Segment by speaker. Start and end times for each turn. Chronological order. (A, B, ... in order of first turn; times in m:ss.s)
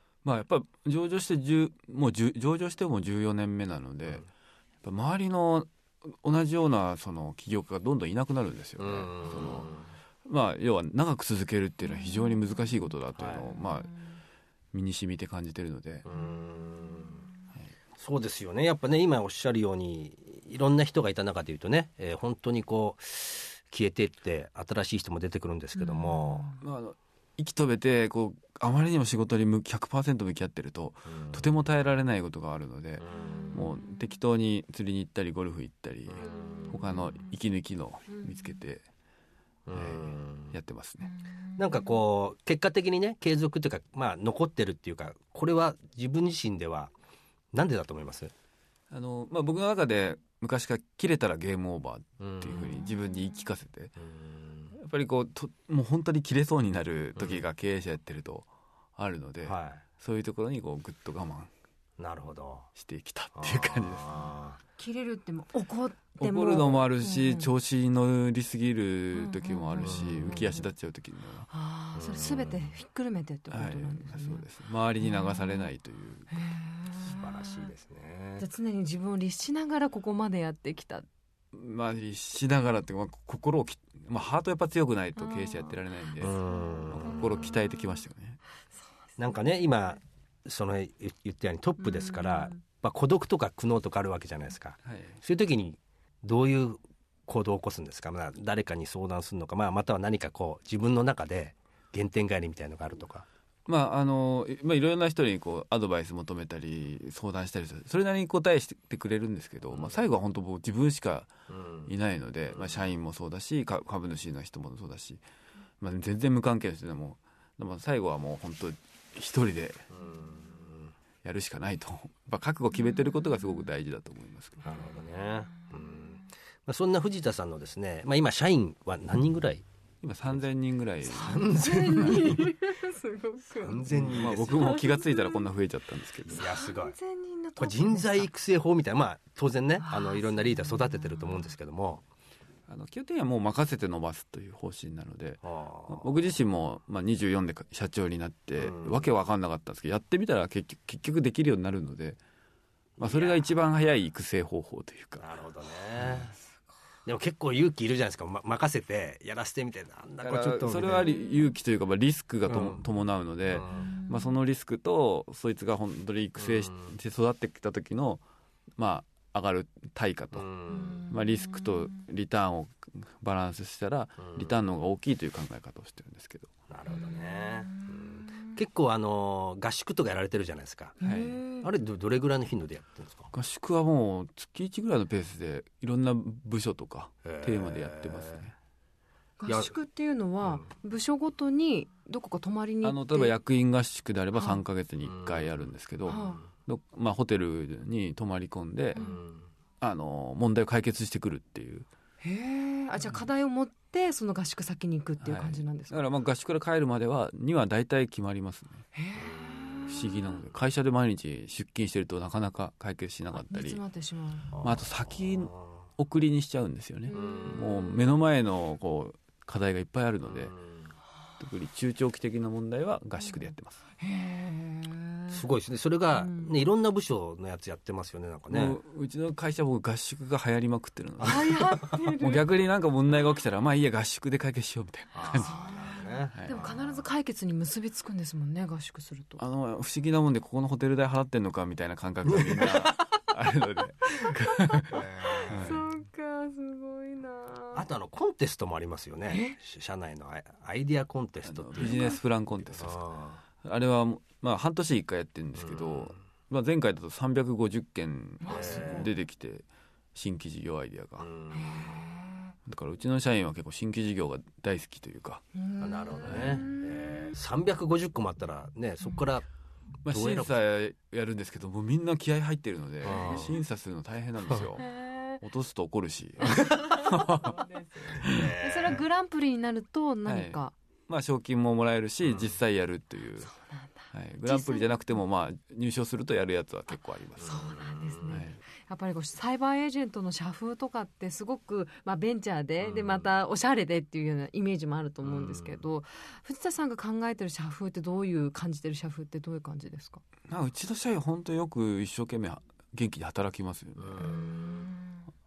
0:00.2-0:04.2 A
0:04.8-0:09.7 A
0:08.8-0:09.9 B
0:10.2-0:13.9 A
0:11.9-0:12.4 C
0:13.2-0:13.5 B
0:14.7-0:16.1 A
0:16.0-0:17.2 B
0:16.2-0:17.1 C
0:18.0-0:26.5 B
0:25.8-0:26.6 C
0:26.6-0:38.8 A
0:31.1-0:31.5 B
0:33.0-0:33.5 B
0:33.4-0:33.9 C
0:36.1-0:36.7 B
0:36.4-0:37.1 C
0:39.7-0:40.6 B
0:39.7-0:41.1 A
0:41.0-0:42.0 C
0:41.6-0:46.9 B
0:47.5-0:48.3 B
0:48.9-0:53.9 A
0:52.2-0:52.9 B
0:54.0-0:54.7 B
0:54.7-1:01.5 A
0:57.2-0:57.4 B
0:59.4-0:59.8 B
1:02.0-1:02.7 B
1:02.8-1:04.1 A
1:03.4-1:04.6 B
1:04.8-1:07.5 C
1:06.2-1:11.5 A
1:09.1-1:10.7 C
1:09.8-1:10.4 B
1:11.5-1:14.5 C
1:11.9-1:12.7 B
1:13.5-1:16.4 A
1:15.0-1:15.7 C
1:16.3-1:17.7 C
1:17.0-1:18.4 B
1:18.4-1:21.1 C
1:21.5-1:26.4 A
1:25.2-1:25.8 C
1:26.2-1:27.5 B
1:26.3-1:27.8 C
1:26.9-1:28.4 A
1:29.2-1:43.2 B
1:29.3-1:29.7 C
1:31.8-1:32.6 C
1:34.8-1:35.2 A
1:43.7-1:51.3 A
1:49.7-1:50.0 B
1:51.5-1:51.9 B
1:51.9-1:55.2 A
1:52.5-1:52.9 B
1:55.8-1:59.8 A
1:59.9-2:00.9 B
2:01.2-2:04.6 A
2:04.6-2:09.6 B
2:10.0-2:11.6 A
2:11.1-2:12.4 B
2:11.1-2:15.4 C
2:13.6-2:14.8 B
2:13.9-2:16.5 A
2:16.3-2:17.0 B
2:16.4-2:18.3 C
2:17.6-2:22.0 B
2:19.8-2:21.5 C
2:22.7-2:32.2 A
2:25.4-2:26.1 B
2:28.6-2:29.1 B
2:33.0-2:33.6 B
2:33.0-2:35.2 A
2:35.2-2:36.3 B
2:36.0-2:36.3 A
2:37.1-2:41.2 B
2:40.2-2:48.2 A
2:41.1-2:41.5 C
2:42.5-2:42.8 B
2:43.5-2:43.9 B
2:43.8-2:44.3 C
2:46.4-2:46.9 B
2:48.8-2:50.5 A
2:50.3-2:51.0 B
2:50.8-2:51.7 C
2:51.1-2:56.5 A
2:56.7-3:01.0 B
2:56.9-2:58.5 C
3:01.0-3:01.7 C
3:01.0-3:01.4 A
3:01.6-3:03.3 B
3:03.3-3:08.6 A
3:07.2-3:08.4 B
3:09.4-3:13.4 C
3:09.5-3:09.7 B
3:12.8-3:19.0 A
3:14.3-3:14.6 C
3:15.1-3:15.5 B
3:16.1-3:16.4 C
3:18.9-3:19.5 B
3:18.9-3:19.2 C
3:19.8-3:21.9 A
3:22.2-3:26.0 C
3:25.2-3:28.8 A
3:28.9-3:30.2 C
3:29.2-3:29.8 B
3:29.9-3:33.8 A
3:33.3-3:34.6 C
3:34.5-3:34.8 B
3:34.6-3:40.5 A
3:37.1-3:37.8 C
3:37.2-3:37.7 B
3:40.2-3:40.8 B
3:41.4-3:43.8 A
3:44.0-3:45.4 C
3:45.3-3:48.8 B
3:46.2-3:46.6 C
3:48.5-3:55.5 A
3:51.2-3:52.5 C
3:55.2-3:57.1 B
3:55.3-3:59.4 C
3:59.4-4:05.0 A
4:04.9-4:05.8 B
4:05.4-4:07.9 C
4:05.5-4:05.9 A
4:07.7-4:12.2 B
4:09.3-4:09.6 C
4:11.4-4:13.0 A
4:11.8-4:12.2 C
4:12.7-4:13.4 B
4:13.6-4:21.3 A
4:15.6-4:16.2 B
4:18.4-4:19.1 C
4:18.5-4:19.1 B
4:21.2-4:22.0 B
4:21.5-4:22.5 C
4:22.7-4:25.4 A
4:25.5-4:27.3 C
4:25.8-4:29.4 B
4:26.2-4:26.6 A
4:30.0-4:34.8 A
4:30.1-4:30.5 B
4:33.0-4:33.6 B
4:34.9-4:35.3 C
4:35.4-4:38.5 A
4:36.5-4:40.7 C
4:38.1-4:39.0 B
4:40.2-4:43.5 A
4:42.2-4:42.6 B
4:43.4-4:44.9 C
4:44.1-4:47.7 A
4:47.4-4:48.3 B
4:47.4-5:00.2 C
4:48.3-4:48.6 A
4:52.8-4:53.4 B
4:55.2-4:55.8 B
5:00.5-5:04.3 A
5:04.0-5:04.6 B
5:04.2-5:05.2 C